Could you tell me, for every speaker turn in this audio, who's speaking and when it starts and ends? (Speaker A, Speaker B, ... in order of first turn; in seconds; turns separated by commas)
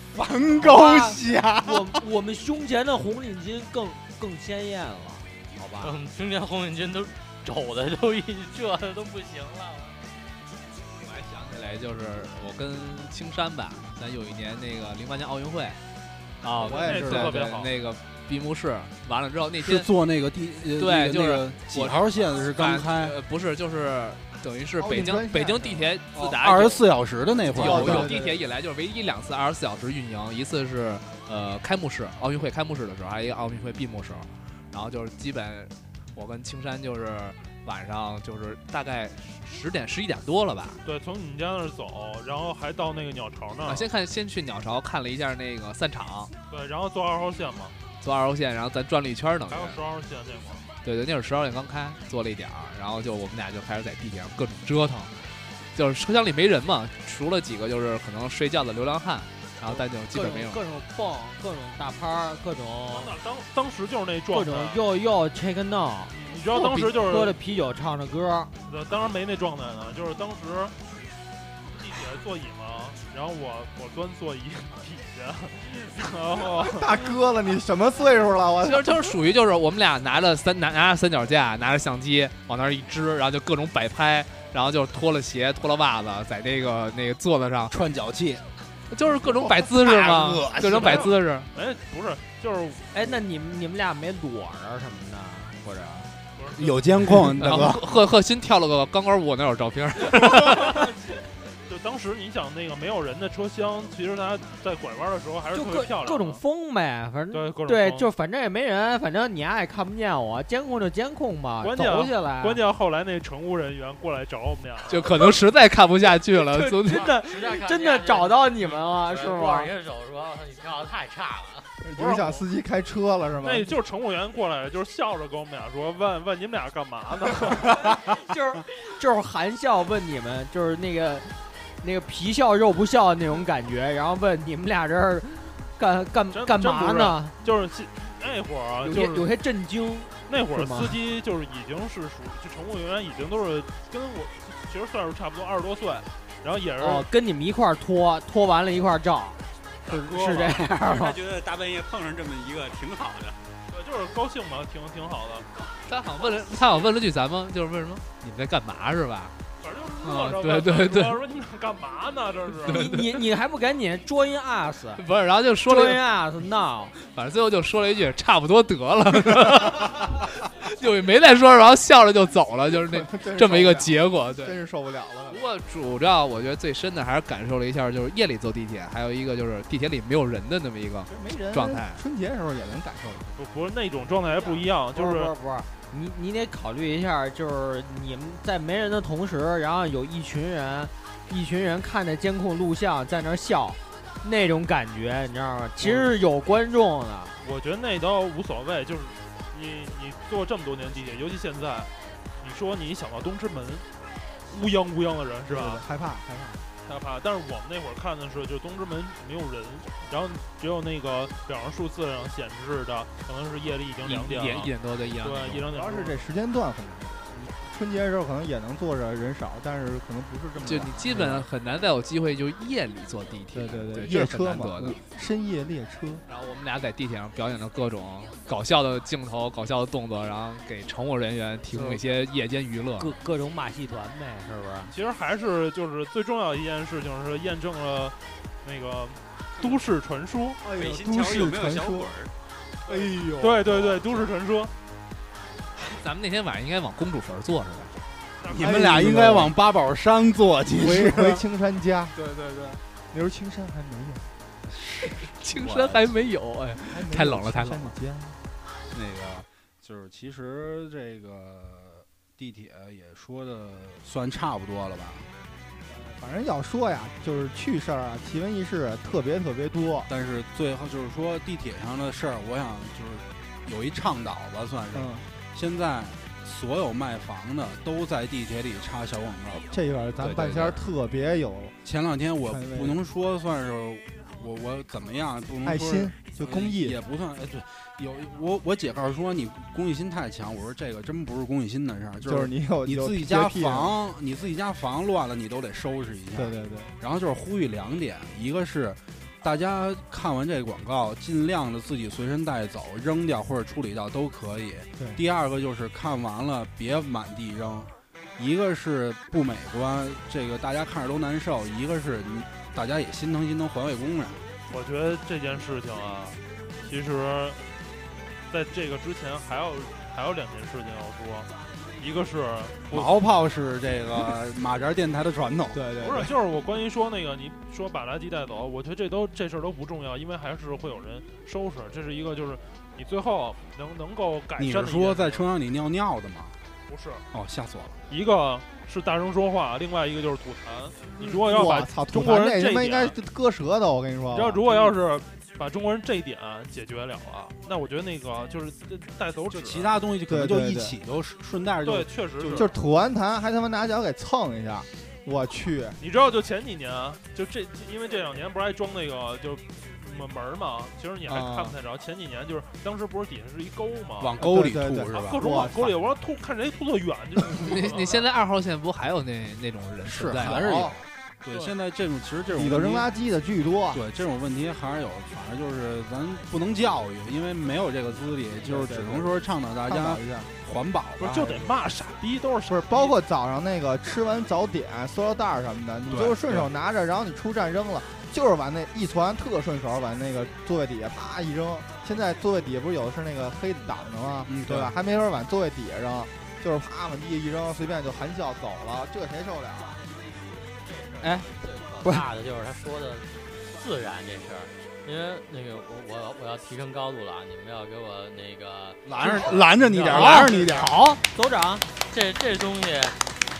Speaker A: 0.1-2.0, Speaker B: 0.5-5.9, Speaker C: 5.8-10.1, Speaker D: 11.0-15.8, Speaker A: 16.6-17.4, Speaker D: 16.6-19.9, Speaker E: 16.7-17.7, Speaker A: 19.6-23.2, Speaker D: 20.8-26.8, Speaker F: 24.8-25.9, Speaker A: 26.1-28.1, Speaker D: 27.5-40.8, Speaker F: 27.5-28.4, Speaker E: 40.8-43.9, Speaker D: 43.7-46.3, Speaker E: 46.5-47.8, Speaker D: 48.0-49.8, Speaker E: 49.5-50.6, Speaker D: 50.8-55.1, Speaker D: 55.7-60.6, Speaker B: 59.6-63.1, Speaker E: 62.9-64.8, Speaker B: 64.3-68.5, Speaker E: 66.1-67.4, Speaker E: 68.7-70.8, Speaker E: 71.7-77.1, Speaker F: 76.5-79.2, Speaker D: 78.6-87.8, Speaker A: 87.7-88.4, Speaker D: 88.9-91.5, Speaker A: 89.1-91.1, Speaker E: 90.8-92.9, Speaker B: 92.9-96.1, Speaker E: 96.4-96.8, Speaker A: 96.5-97.8, Speaker D: 97.2-100.9, Speaker E: 100.2-100.9, Speaker E: 101.7-106.4, Speaker B: 105.5-112.6, Speaker E: 107.3-108.1, Speaker E: 111.6-115.3, Speaker D: 114.9-117.2, Speaker B: 116.4-119.7, Speaker C: 117.1-121.7, Speaker F: 121.8-123.7, Speaker E: 122.0-122.4, Speaker E: 123.4-127.9, Speaker B: 127.8-137.3, Speaker E: 136.3-139.3, Speaker B: 138.8-140.9, Speaker E: 140.3-147.1, Speaker B: 146.8-151.2, Speaker G: 150.0-153.4, Speaker E: 153.7-155.5, Speaker D: 155.9-159.4, Speaker E: 159.6-162.8, Speaker D: 160.0-161.2, Speaker D: 162.6-163.2, Speaker B: 162.7-165.0, Speaker D: 165.0-166.0, Speaker B: 165.7-166.9, Speaker D: 167.0-174.6, Speaker F: 172.9-175.4, Speaker D: 175.3-182.0, Speaker F: 181.1-183.3, Speaker E: 183.4-185.3, Speaker B: 184.9-197.3, Speaker E: 195.8-196.1, Speaker E: 197.4-203.9, Speaker E: 204.5-205.8, Speaker F: 205.5-206.6, Speaker E: 206.8-216.2, Speaker D: 214.0-215.7, Speaker F: 215.7-221.5, Speaker D: 220.6-225.0, Speaker F: 223.5-226.2, Speaker D: 226.3-233.2, Speaker B: 231.7-232.0, Speaker B: 233.0-234.9, Speaker E: 234.9-240.7, Speaker F: 240.7-242.1, Speaker G: 240.7-242.3, Speaker A: 242.9-244.1, Speaker E: 243.0-244.7, Speaker D: 245.8-247.9, Speaker E: 248.4-248.8, Speaker A: 248.5-251.4, Speaker F: 248.6-249.5, Speaker F: 250.7-252.2, Speaker A: 252.2-252.8, Speaker F: 253.1-254.3, Speaker A: 254.7-256.0, Speaker D: 255.0-257.9, Speaker F: 256.8-258.4, Speaker A: 258.9-265.3, Speaker F: 265.9-270.1, Speaker A: 270.1-280.8, Speaker F: 274.9-275.2, Speaker F: 279.7-281.8, Speaker A: 281.8-314.4, Speaker F: 282.4-283.0, Speaker F: 285.6-287.0, Speaker F: 292.2-294.0, Speaker F: 296.3-296.9, Speaker E: 314.7-317.6, Speaker E: 318.5-323.2, Speaker A: 322.9-325.9, Speaker F: 325.7-326.4, Speaker E: 326.0-335.5, Speaker A: 334.6-336.6, Speaker E: 336.9-337.2, Speaker A: 337.3-338.0, Speaker E: 338.1-343.2, Speaker F: 341.2-344.6, Speaker E: 344.3-350.0, Speaker A: 349.5-352.1, Speaker F: 350.3-351.0, Speaker E: 351.8-352.7, Speaker F: 352.4-356.0, Speaker E: 356.0-364.4, Speaker F: 361.5-361.8, Speaker A: 364.2-365.4, Speaker F: 364.4-366.0, Speaker E: 365.1-368.2, Speaker D: 367.5-370.9, Speaker A: 370.0-373.1, Speaker F: 370.5-371.0, Speaker E: 371.5-371.7, Speaker F: 372.5-374.0, Speaker A: 373.9-381.7, Speaker F: 378.6-380.5, Speaker E: 381.2-383.1, Speaker F: 382.7-400.0, Speaker A: 386.1-386.7, Speaker A: 394.5-394.9, Speaker C: 400.7-409.7, Speaker B: 401.2-401.5, Speaker A: 409.1-411.0, Speaker E: 409.8-410.3, Speaker B: 410.1-411.9, Speaker C: 410.3-410.6, Speaker C: 412.1-413.2